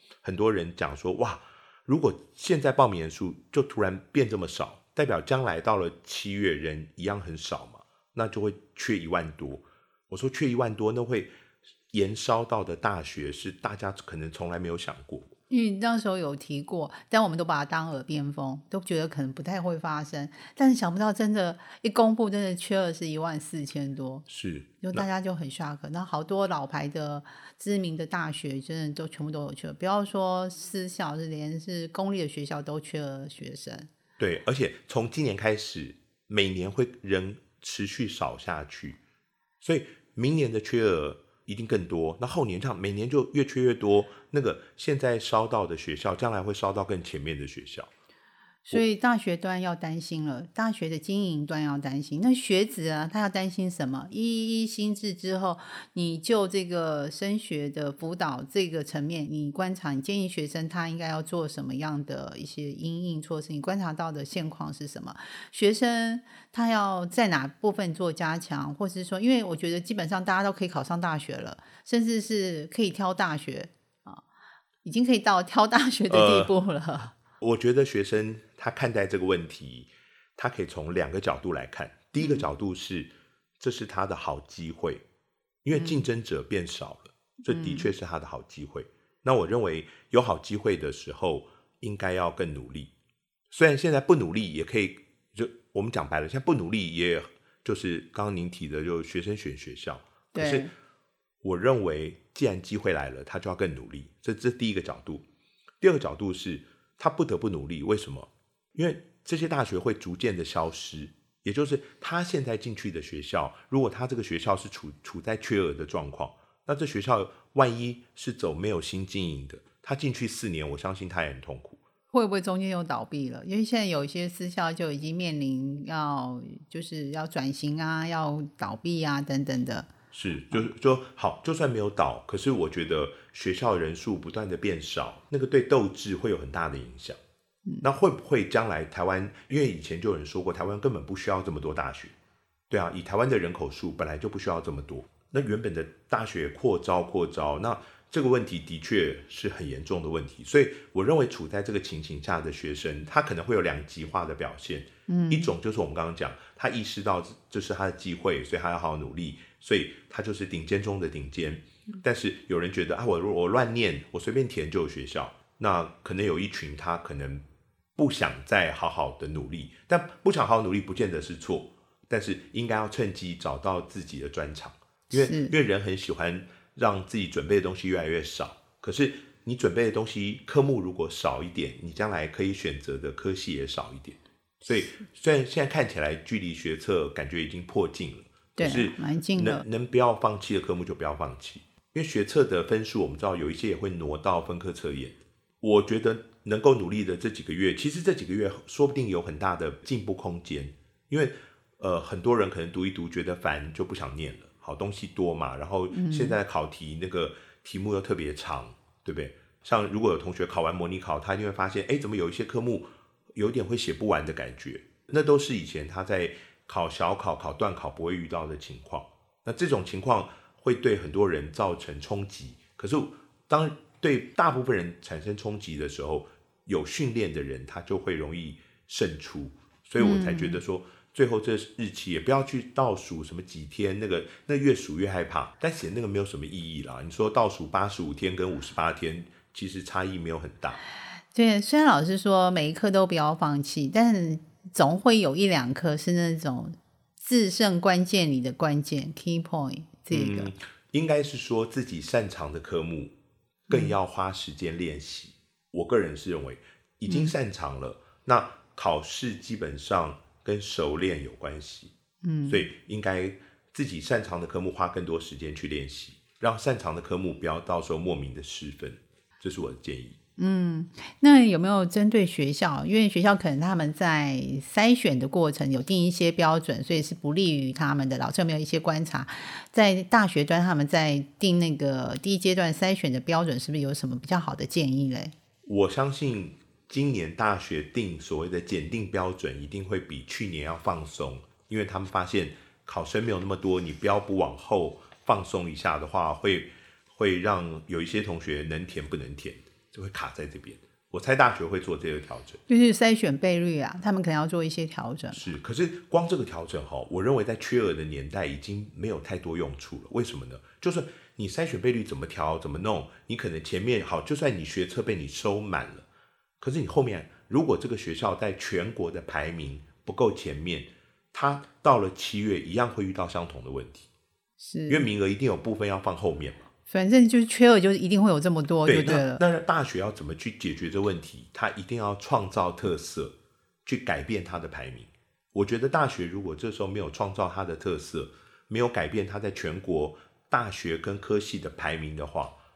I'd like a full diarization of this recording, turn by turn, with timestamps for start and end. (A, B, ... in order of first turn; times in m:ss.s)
0:00.2-0:11.3 A
0:11.9-0:15.3 A
0:15.5-0:24.2 B
0:24.3-0:25.0 A
0:24.8-0:33.9 B
0:34.2-0:39.0 A
0:39.6-0:47.9 A
0:48.6-1:14.2 B
1:14.8-1:17.1 B
1:16.1-1:16.5 A
1:17.4-1:25.0 A
1:22.2-1:22.4 B
1:25.6-1:32.9 A
1:25.7-1:26.0 B
1:27.5-1:27.9 B
1:33.5-1:40.7 A
1:40.3-1:40.7 B
1:41.4-1:45.2 A
1:45.8-2:01.8 A
2:02.1-2:09.9 B
2:10.1-2:17.2 A
2:17.8-2:22.1 A
2:22.7-2:47.4 A
2:35.1-2:35.5 B
2:48.0-4:00.8 A
2:55.1-2:55.5 B
3:04.7-3:05.0 B
3:08.6-3:09.6 B
3:25.9-3:26.4 B
3:50.0-3:50.6 B
4:01.3-4:10.5 B
4:10.1-4:13.1 A
4:13.7-4:21.9 A
4:13.7-4:14.0 B
4:17.1-4:17.3 B
4:22.2-4:22.7 B
4:22.4-4:30.2 A
4:30.4-4:45.3 B
4:45.6-5:02.6 A
5:02.7-5:05.4 B
5:05.3-5:16.0 A
5:16.6-5:24.1 A
5:24.6-5:25.1 B
5:24.9-5:26.6 A
5:26.9-5:29.4 B
5:28.8-5:33.3 A
5:33.8-5:42.6 A